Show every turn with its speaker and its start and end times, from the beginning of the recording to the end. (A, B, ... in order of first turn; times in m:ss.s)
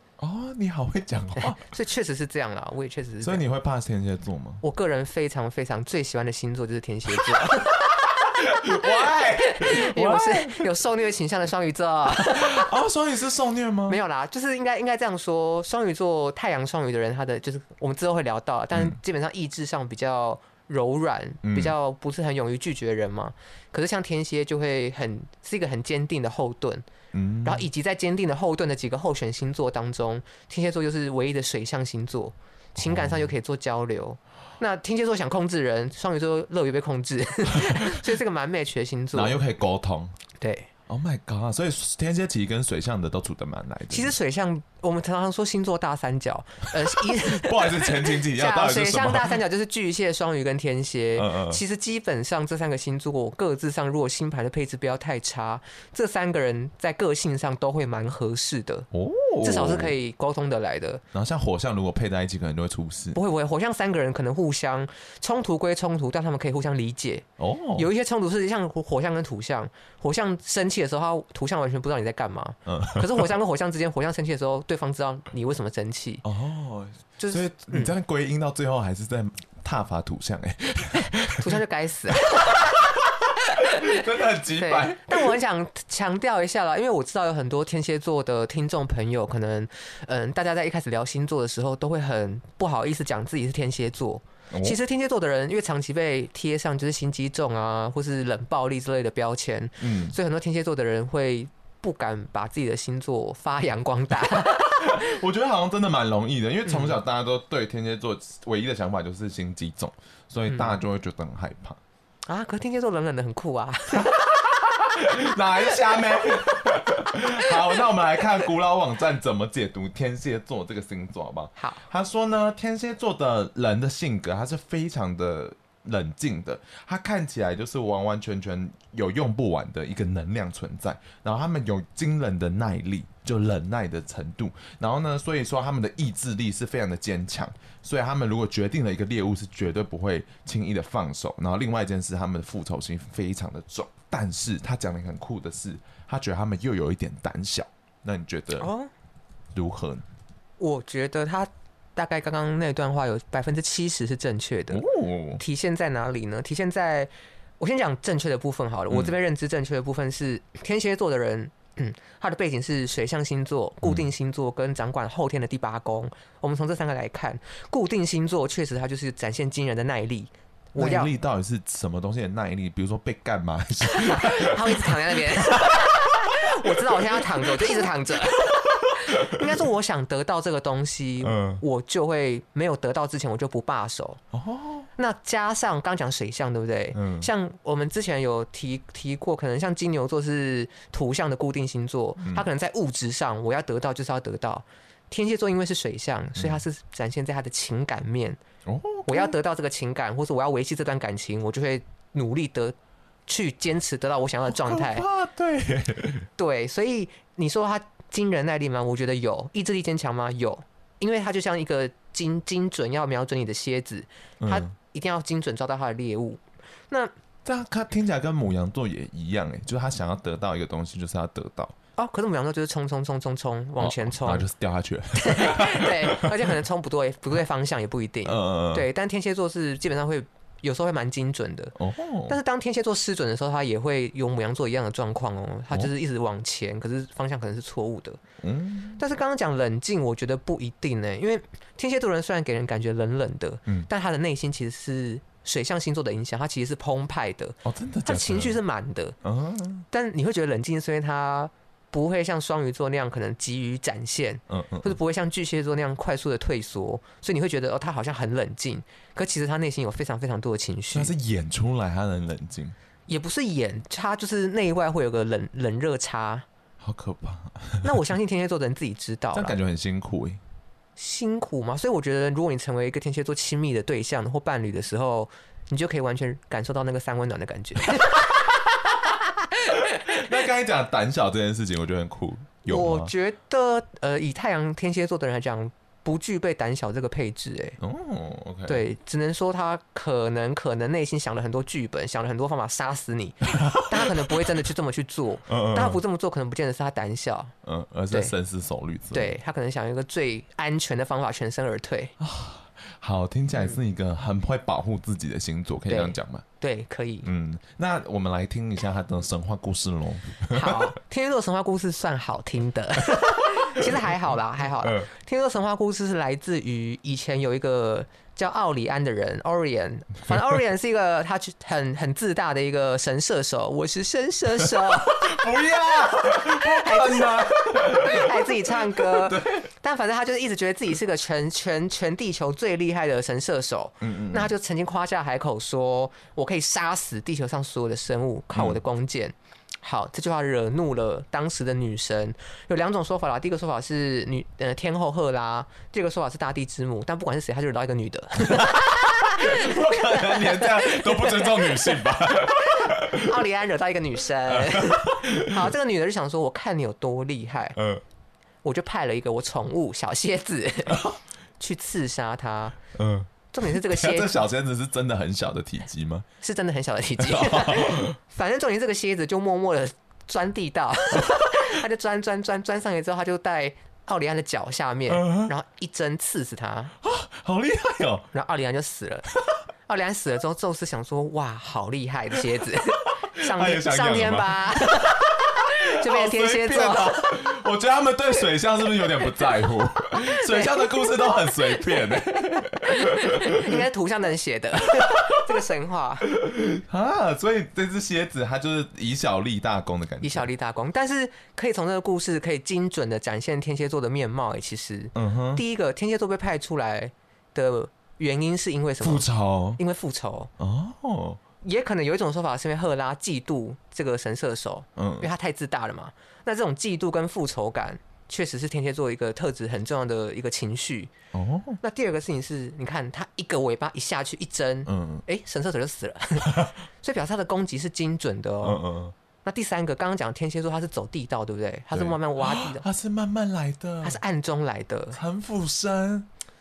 0:00.2-0:01.7 A
0:01.4-0:03.4 B
0:03.2-0:04.6 A
0:04.6-0:12.7 B
0:08.2-0:10.7 A
0:12.1-0:14.0 A
0:13.9-0:26.8 B
0:21.4-0:21.7 A
0:27.1-0:27.6 A
0:27.4-0:39.4 B
0:32.8-0:33.3 A
0:37.6-0:38.0 A
0:39.1-0:40.2 A
0:40.4-0:40.7 B
0:40.9-0:44.1 A
0:43.9-0:58.9 B
0:47.0-0:49.4 A
0:51.2-0:51.6 A
0:58.9-0:59.9 A
0:59.4-1:01.0 B
1:01.1-1:03.2 A
1:03.1-1:16.2 B
1:07.4-1:07.9 A
1:12.6-1:13.2 A
1:16.2-1:21.6 A
1:17.2-1:17.9 B
1:21.3-1:22.8 B
1:22.2-1:25.4 A
1:23.4-1:45.2 B
1:34.5-1:34.8 A
1:39.8-1:40.2 A
1:44.3-1:51.8 A
1:46.6-1:47.0 B
1:50.5-1:50.8 B
1:52.2-1:54.2 B
1:54.0-2:28.7 A
2:01.6-2:01.8 B
2:28.6-2:28.9 B
2:29.5-2:30.0 A
2:30.6-2:34.8 B
2:34.7-2:35.4 A
2:35.4-2:51.1 B
2:50.8-2:57.9 A
2:53.9-3:04.2 B
2:58.7-2:59.4 A
3:01.2-3:01.6 A
3:04.3-3:04.9 A
3:05.0-3:18.4 B
3:06.9-3:07.3 A
3:12.2-3:12.5 A
3:16.4-3:16.6 A
3:18.6-3:19.3 A
3:19.1-3:22.7 B
3:23.3-3:25.0 B
3:24.5-3:26.3 A
3:26.4-3:37.1 B
3:34.4-3:34.7 A
3:37.4-3:41.7 A
3:42.0-3:44.4 B
3:43.8-3:46.5 A
3:45.2-3:51.8 B
3:48.2-3:48.9 A
3:51.8-3:52.4 A
3:52.3-3:58.2 B
3:58.4-3:59.0 A
3:59.0-4:09.2 B
4:07.6-4:08.6 A
4:09.2-4:09.8 A
4:09.9-4:21.1 B
4:14.5-4:15.0 A
4:20.9-4:22.7 A
4:23.1-4:26.4 B
4:26.8-4:27.9 A
4:27.8-4:29.6 B
4:29.3-4:30.4 A
4:31.0-4:38.3 B
4:39.1-4:40.2 B
4:39.7-4:43.1 A
4:42.7-4:47.8 B
4:47.8-4:48.8 A
4:48.6-4:57.5 B
4:53.5-4:54.5 A
4:55.5-4:56.0 A
4:57.6-4:59.3 A
4:59.1-5:02.1 B
5:02.2-5:06.4 A
5:05.9-5:07.3 B
5:07.2-5:10.9 A
5:10.5-5:25.4 B
5:13.1-5:15.1 A
5:24.6-5:29.7 A
5:26.4-5:52.0 B
5:34.0-5:34.5 A
5:38.5-5:38.8 A
5:48.4-5:53.4 A
5:52.8-5:57.8 B
5:54.5-5:55.7 A
5:57.8-5:58.0 A
5:58.6-6:01.0 B
6:00.9-6:01.2 A
6:01.6-6:02.8 B
6:02.9-6:06.3 A
6:03.5-6:04.4 B
6:06.4-6:16.9 B
6:07.2-6:08.2 A
6:15.1-6:15.5 A
6:17.0-6:18.3 A
6:18.3-6:19.3 B
6:19.9-6:27.5 B
6:23.3-6:33.8 A
6:30.4-6:31.1 B
6:32.8-6:36.3 B
6:35.0-6:35.3 A
6:36.3-6:40.5 A
6:40.2-6:49.2 B
6:45.1-6:45.6 A
6:49.0-6:49.8 A
6:49.8-6:50.5 B
6:50.6-6:51.4 A
6:51.6-7:01.1 B
6:55.0-6:55.3 A
7:01.3-7:01.8 A
7:01.8-7:08.8 B
7:04.9-7:05.2 A
7:08.6-7:09.1 A
7:09.4-7:12.8 B
7:11.9-7:14.2 A
7:14.0-7:15.2 B
7:15.1-7:16.3 A